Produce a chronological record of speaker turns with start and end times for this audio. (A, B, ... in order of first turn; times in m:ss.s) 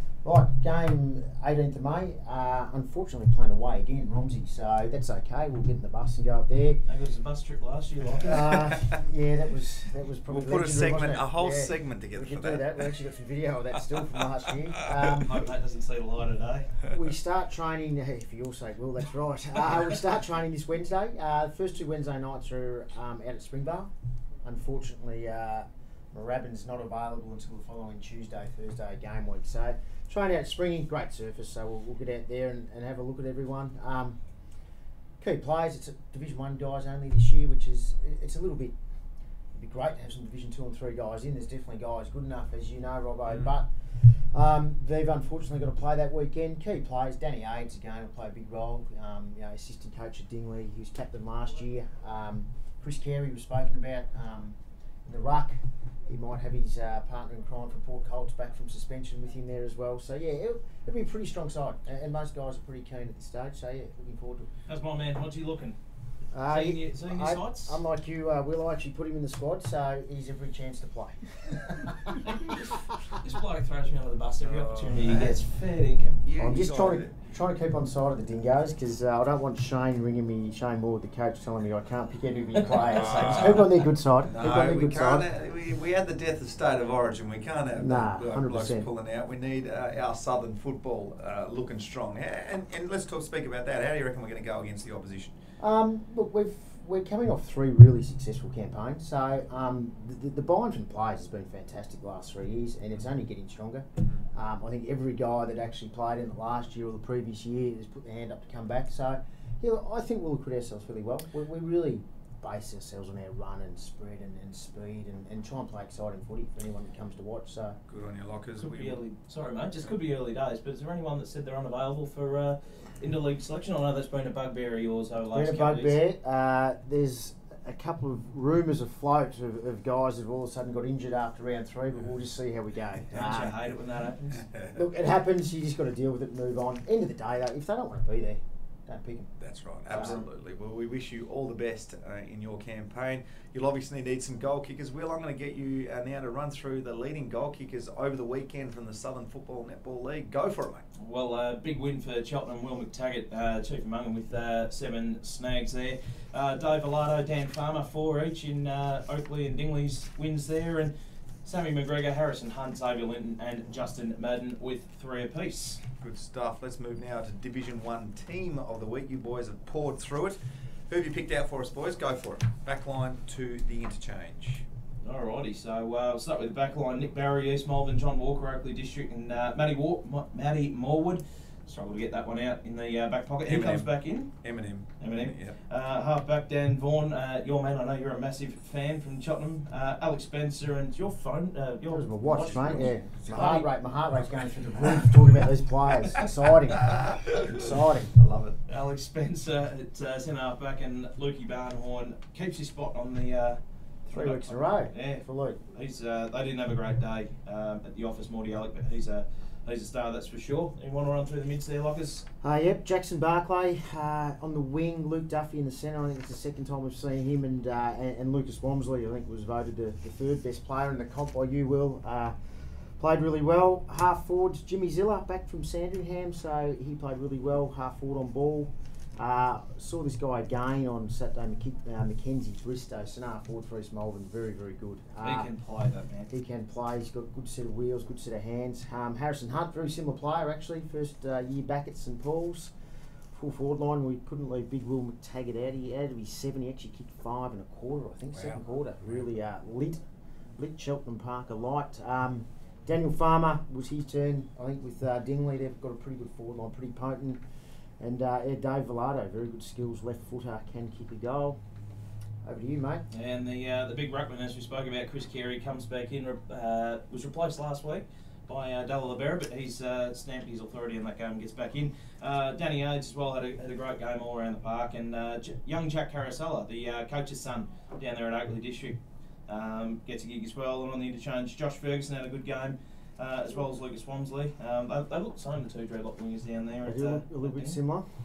0:00.2-0:06.8 A
0:06.9-0:08.4 B
0:08.2-0:15.4 A
0:10.3-0:12.9 C
0:15.1-0:16.7 B
0:16.9-0:23.9 A
0:24.4-0:34.2 A
0:35.2-0:38.8 A
0:39.6-1:04.5 A
1:04.7-1:05.8 B
1:06.3-1:12.6 A
1:06.5-1:07.8 B
1:12.5-1:16.2 B
1:14.5-1:15.3 C
1:15.1-1:15.3 A
1:16.1-1:17.1 C
1:16.4-1:25.3 A
1:22.6-1:23.5 B
1:22.8-1:23.7 C
1:24.2-1:35.4 C
1:27.8-1:28.9 A
1:35.6-1:57.8 A
1:57.9-1:59.0 C
1:58.6-2:06.0 B
2:05.3-2:13.6 A
2:13.1-2:14.5 B
2:14.4-2:14.8 C
2:14.7-2:19.3 A
2:19.4-2:30.8 C
2:19.9-2:20.2 A
2:31.0-2:40.9 B
2:41.4-2:45.8 B
2:46.0-2:54.6 C
2:55.0-3:04.3 B
3:03.4-3:05.6 C
3:05.0-3:13.7 B
3:11.9-3:18.1 A
3:17.0-3:17.5 C
3:18.2-3:18.6 C
3:18.7-3:32.2 B
3:24.1-3:25.6 A
3:32.4-3:42.4 A
3:43.0-3:55.5 A
3:55.2-3:56.3 B
3:56.3-4:02.7 A
4:03.3-4:10.0 A
4:10.6-4:17.4 A
4:18.0-4:21.6 A
4:22.4-4:23.0 A
4:23.1-4:47.8 B
4:46.8-4:48.1 A